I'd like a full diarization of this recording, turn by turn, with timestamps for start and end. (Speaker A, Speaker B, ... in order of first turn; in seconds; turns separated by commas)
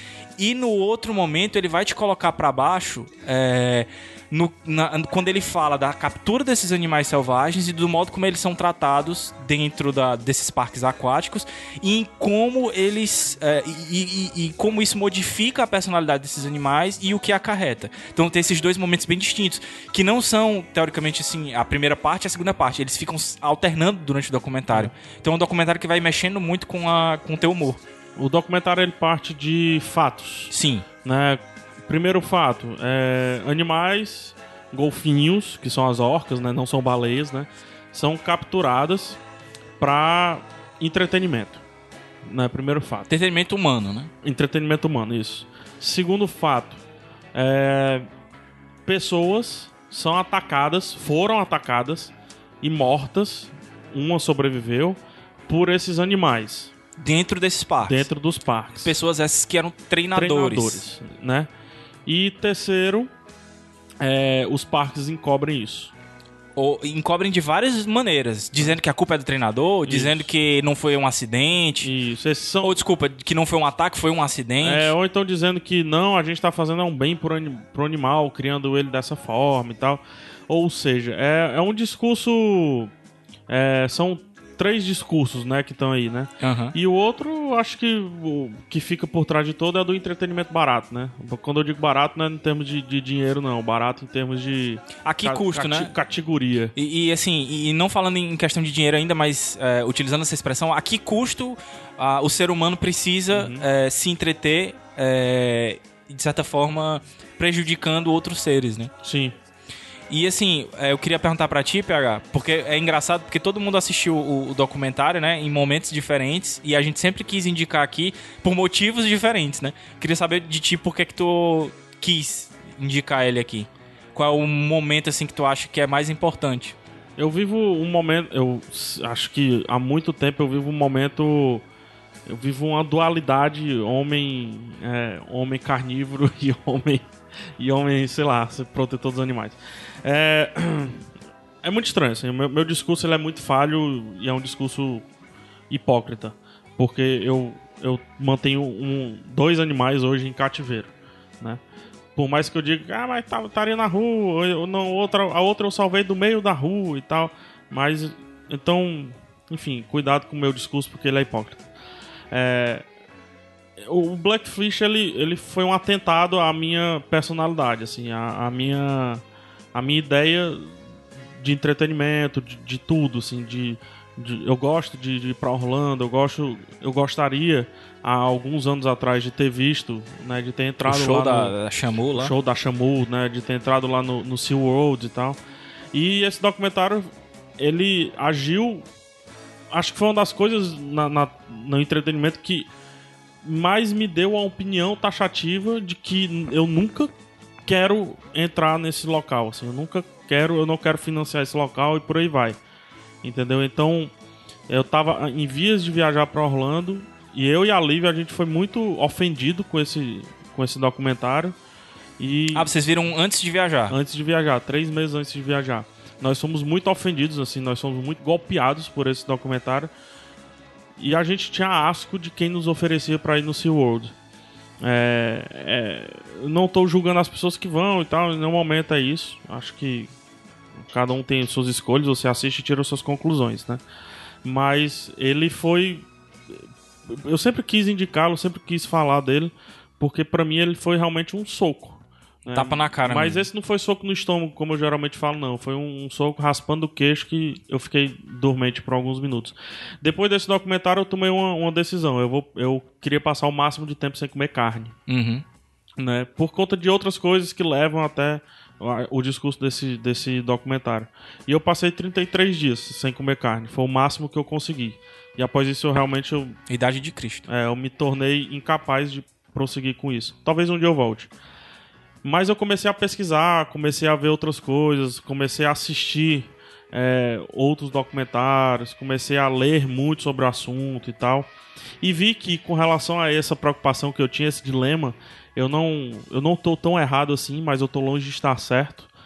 Speaker A: 0.4-27.8, Speaker B: 28.2-30.5, Speaker A: 30.5-30.9, Speaker B: 31.0-39.2, Speaker B: 39.8-41.6, Speaker B: 42.2-43.1, Speaker A: 43.1-44.1, Speaker B: 44.2-46.8, Speaker B: 47.3-48.1, Speaker B: 48.9-56.7, Speaker A: 57.0-58.1, Speaker B: 57.8-59.0, Speaker A: 58.8-60.8, Speaker B: 60.1-61.5, Speaker B: 62.0-63.1, Speaker B: 64.0-65.9, Speaker A: 66.5-71.9, Speaker B: 69.8-70.3, Speaker B: 71.8-72.8, Speaker A: 72.6-74.9, Speaker B: 74.6-82.9, Speaker B: 83.5-96.7, Speaker A: 86.4-86.7, Speaker A: 95.0-95.9, Speaker A: 96.8-108.9, Speaker B: 103.3-103.7, Speaker B: 109.0-109.3, Speaker A: 110.1-126.8, Speaker B: 127.2-131.6, Speaker B: 132.3-141.0, Speaker B: 141.6-145.0, Speaker B: 145.7-151.6, Speaker B: 152.2-161.7, Speaker B: 162.3-162.8, Speaker B: 163.8-169.2, Speaker B: 169.7-170.8, Speaker B: 171.4-181.5, Speaker A: 180.8-182.3, Speaker B: 182.1-185.4, Speaker B: 185.9-188.8, Speaker B: 189.7-192.7, Speaker B: 193.4-197.1, Speaker B: 197.6-202.6, Speaker B: 203.2-204.1, Speaker B: 204.7-211.6, Speaker B: 212.2-212.7, Speaker A: 212.5-213.9, Speaker B: 213.9-219.9, Speaker B: 221.0-224.1, Speaker B: 224.8-230.1, Speaker B: 230.8-233.8, Speaker B: 234.4-254.9, Speaker A: 242.5-243.4, Speaker A: 255.1-255.4, Speaker B: 256.0-266.6, Speaker A: 266.7-267.4, Speaker B: 267.5-271.3, Speaker B: 272.2-281.5, Speaker B: 282.0-289.1